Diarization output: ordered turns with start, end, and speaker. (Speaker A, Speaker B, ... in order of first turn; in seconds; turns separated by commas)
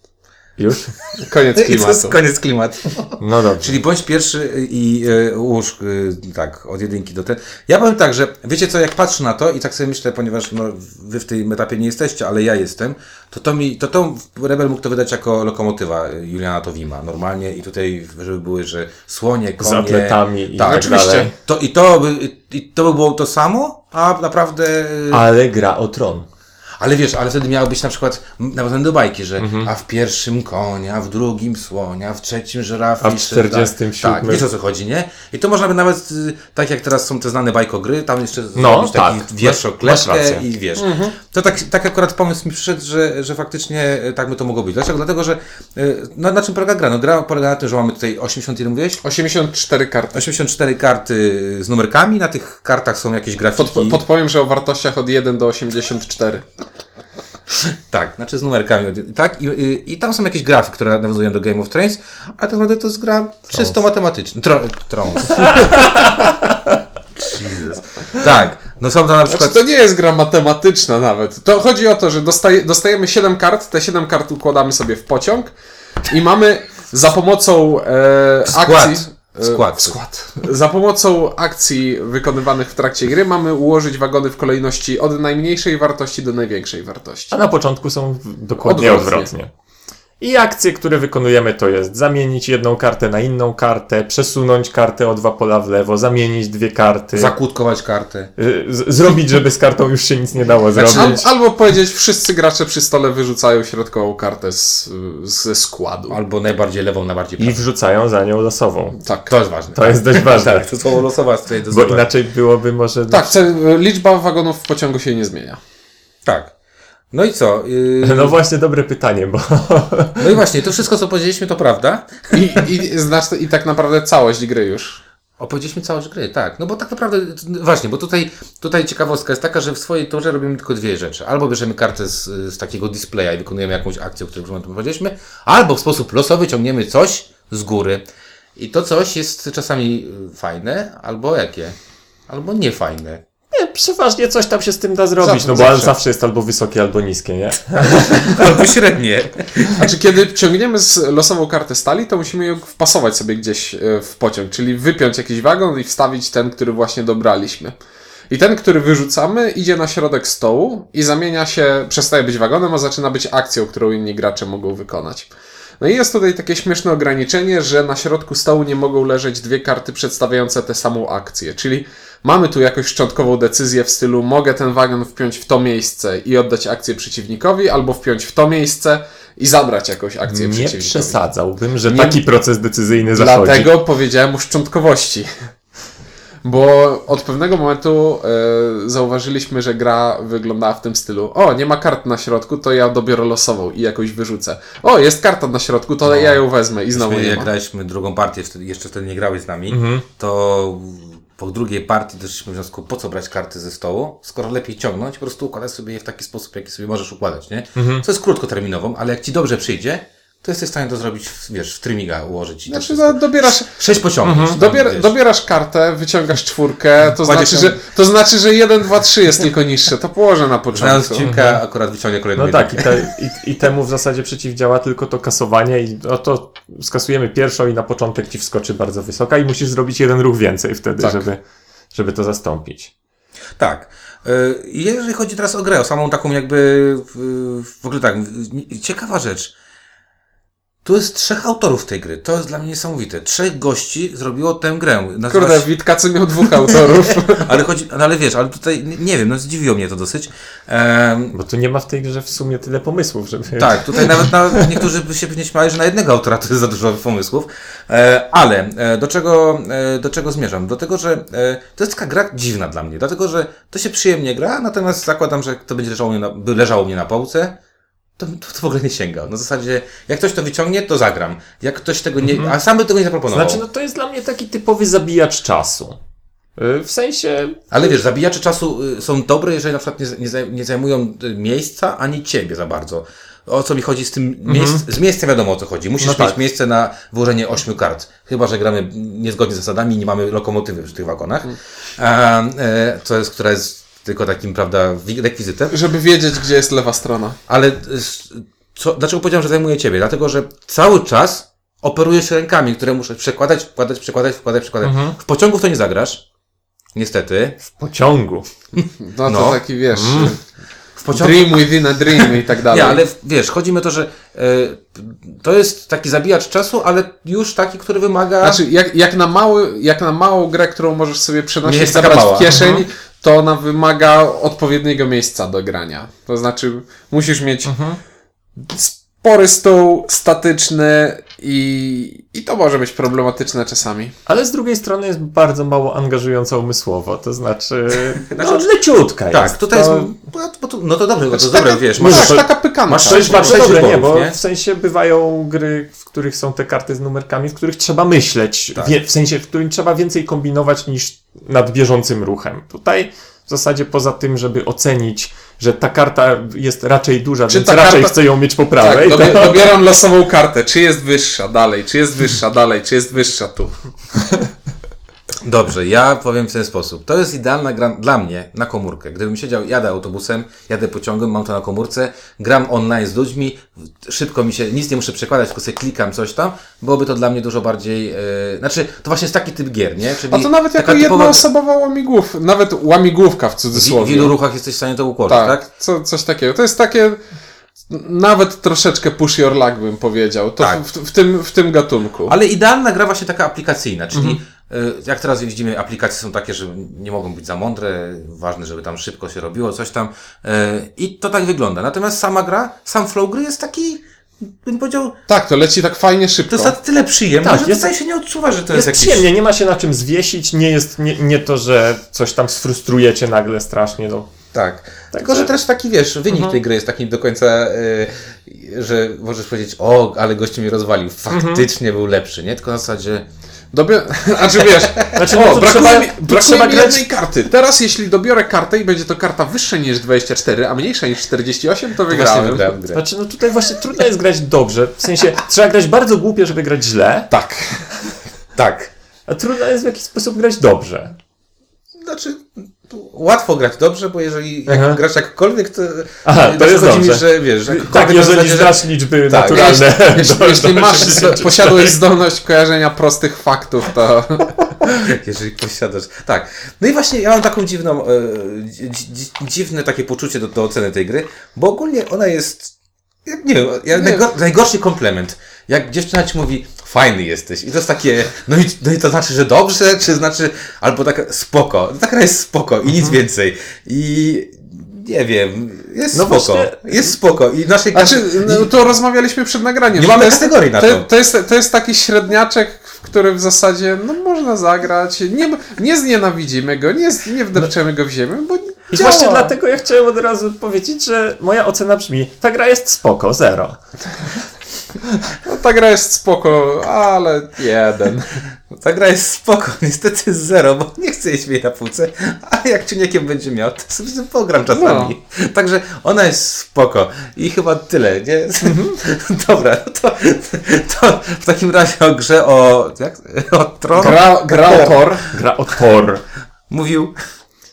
Speaker A: 0.6-0.9, Speaker B: 1.2-2.2, Speaker C: 1.5-25.2, Speaker A: 3.2-3.8, Speaker A: 19.6-21.3, Speaker B: 20.7-21.3, Speaker A: 25.1-26.3, Speaker C: 26.8-49.0, Speaker A: 29.4-29.7, Speaker A: 33.0-34.5, Speaker A: 38.5-40.5, Speaker B: 40.8-41.1, Speaker B: 49.0-50.3, Speaker C: 50.1-54.0, Speaker B: 53.6-56.5, Speaker C: 57.9-65.9, Speaker A: 65.4-66.1, Speaker C: 67.2-69.6, Speaker B: 69.3-75.5, Speaker B: 76.0-87.4, Speaker C: 78.5-80.0, Speaker A: 87.3-89.5, Speaker B: 88.6-89.3, Speaker A: 90.2-97.3, Speaker C: 97.1-98.3, Speaker A: 98.4-101.2, Speaker C: 100.8-101.2, Speaker B: 100.9-106.2, Speaker C: 106.1-107.6, Speaker A: 107.4-109.0, Speaker B: 109.0-109.3, Speaker C: 109.3-112.1, Speaker A: 109.7-110.7, Speaker A: 111.7-113.4, Speaker B: 113.1-115.6, Speaker C: 116.2-116.5, Speaker C: 117.1-118.4, Speaker A: 118.0-120.3, Speaker C: 120.2-122.4, Speaker B: 122.3-125.0, Speaker C: 125.4-138.0, Speaker C: 138.6-141.8, Speaker C: 142.3-143.2, Speaker A: 143.5-148.7, Speaker B: 145.2-145.9, Speaker C: 147.9-149.9, Speaker B: 149.8-157.8, Speaker B: 158.3-181.2, Speaker A: 180.3-183.7, Speaker B: 181.9-182.2, Speaker B: 183.2-185.3, Speaker B: 186.4-197.5, Speaker C: 196.1-196.4, Speaker C: 196.9-215.1, Speaker A: 199.7-200.0, Speaker A: 207.8-208.0, Speaker B: 212.7-213.8, Speaker A: 214.2-214.6, Speaker B: 214.5-221.3, Speaker C: 217.2-217.8, Speaker C: 220.7-223.1, Speaker A: 221.2-221.6, Speaker A: 222.3-231.4, Speaker B: 231.0-231.2, Speaker A: 231.9-232.9, Speaker C: 233.6-239.5, Speaker C: 240.8-245.7, Speaker B: 245.3-247.6, Speaker C: 247.1-251.4, Speaker A: 251.3-254.8, Speaker C: 253.6-267.6, Speaker C: 268.2-273.6, Speaker A: 272.2-272.6, Speaker A: 273.3-276.0, Speaker A: 276.6-278.0, Speaker C: 277.7-295.8, Speaker A: 284.4-284.8, Speaker A: 286.0-286.4, Speaker B: 295.7-297.4, Speaker C: 297.5-306.2, Speaker A: 304.8-305.2, Speaker C: 306.9-307.6, Speaker A: 307.7-308.4, Speaker B: 309.0-310.4, Speaker C: 309.2-309.6, Speaker A: 309.9-310.4, Speaker C: 311.0-318.6, Speaker B: 311.1-313.0, Speaker B: 318.4-327.7, Speaker C: 321.6-322.6, Speaker A: 322.5-322.9, Speaker A: 327.6-328.0, Speaker B: 328.6-334.1, Speaker A: 334.3-340.1, Speaker C: 338.3-338.7, Speaker C: 339.3-344.4, Speaker B: 341.3-344.0, Speaker A: 342.0-359.8, Speaker B: 357.5-358.2, Speaker B: 358.8-363.8, Speaker C: 365.4-381.4, Speaker B: 380.3-384.3, Speaker C: 383.7-385.6, Speaker B: 385.3-387.2, Speaker B: 387.9-392.3, Speaker C: 392.3-405.2, Speaker B: 394.1-394.4, Speaker B: 405.3-406.8, Speaker C: 406.5-409.3, Speaker A: 407.4-407.9, Speaker A: 408.7-414.3, Speaker C: 414.5-423.2, Speaker A: 415.1-415.5, Speaker A: 416.3-416.6, Speaker A: 421.3-421.6, Speaker B: 423.7-432.8, Speaker A: 425.1-427.1, Speaker C: 432.1-433.0, Speaker A: 432.9-437.3, Speaker B: 437.3-437.9, Speaker C: 438.6-438.9, Speaker A: 439.3-441.2, Speaker C: 442.0-449.8, Speaker A: 444.7-445.0, Speaker A: 446.2-452.0, Speaker B: 449.4-454.6, Speaker C: 454.9-462.7, Speaker C: 463.3-478.7, Speaker B: 463.9-464.2, Speaker A: 476.1-477.1, Speaker B: 477.9-489.5, Speaker C: 479.9-481.1, Speaker A: 488.9-493.8, Speaker B: 495.4-498.3, Speaker C: 498.7-514.9, Speaker B: 504.7-505.1, Speaker A: 508.6-509.0, Speaker B: 513.9-515.3, Speaker A: 514.0-516.2, Speaker C: 516.7-517.1